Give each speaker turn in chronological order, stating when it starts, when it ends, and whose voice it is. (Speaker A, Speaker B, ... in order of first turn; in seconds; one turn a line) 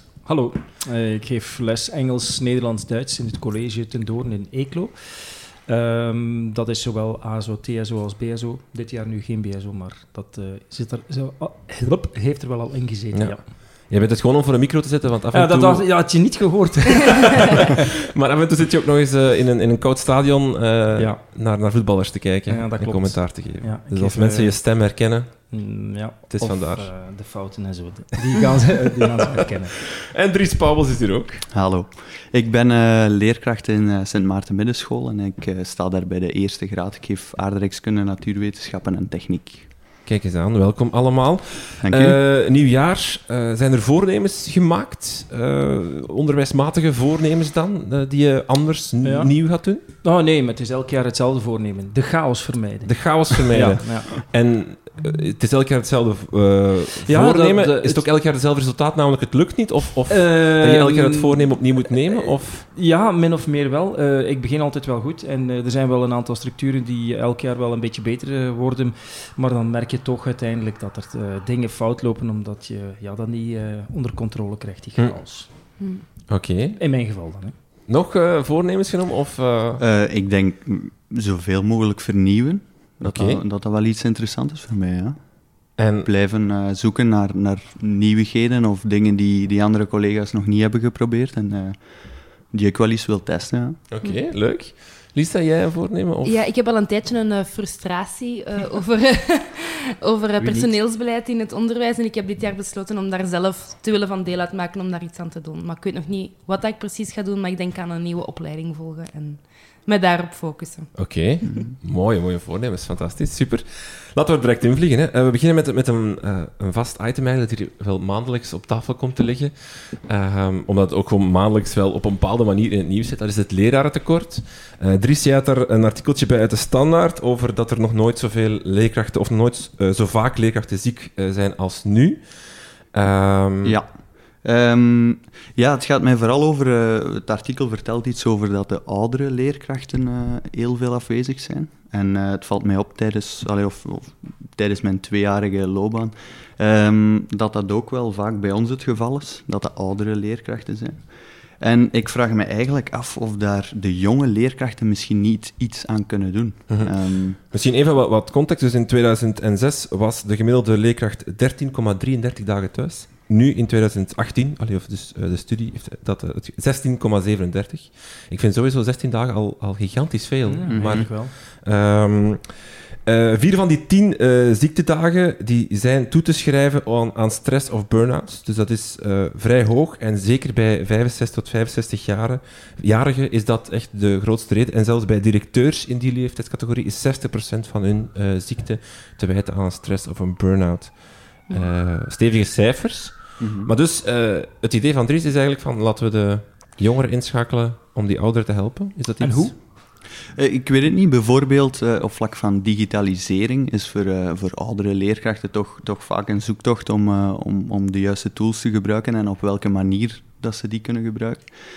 Speaker A: 0.2-13.4
Speaker B: 13.1-16.4
Speaker A: 15.3-17.7
Speaker B: 17.5-25.6
Speaker A: 21.0-21.2
Speaker A: 22.5-24.7
Speaker A: 25.5-29.8
Speaker B: 26.3-26.9
Speaker B: 30.1-31.4
Speaker C: 31.5-39.7
Speaker B: 40.0-49.8
Speaker C: 41.8-42.2
Speaker A: 49.0-54.2
Speaker B: 52.9-62.7
Speaker A: 57.1-58.1
Speaker A: 60.1-75.5
Speaker B: 75.0-75.5
Speaker B: 76.3-76.8
Speaker A: 76.8-77.5
Speaker B: 77.9-79.8
Speaker C: 79.8-93.8
Speaker B: 83.0-83.4
Speaker B: 85.8-86.1
Speaker B: 93.9-96.4
Speaker D: 96.2-110.9
Speaker A: 100.4-100.7
Speaker B: 111.0-133.8
Speaker C: 111.5-111.7
Speaker C: 133.6-157.4
Speaker B: 156.7-199.6
Speaker A: 170.5-171.3
Speaker C: 170.7-171.1
Speaker C: 193.4-193.7
Speaker A: 199.2-199.5
Speaker C: 200.3-211.6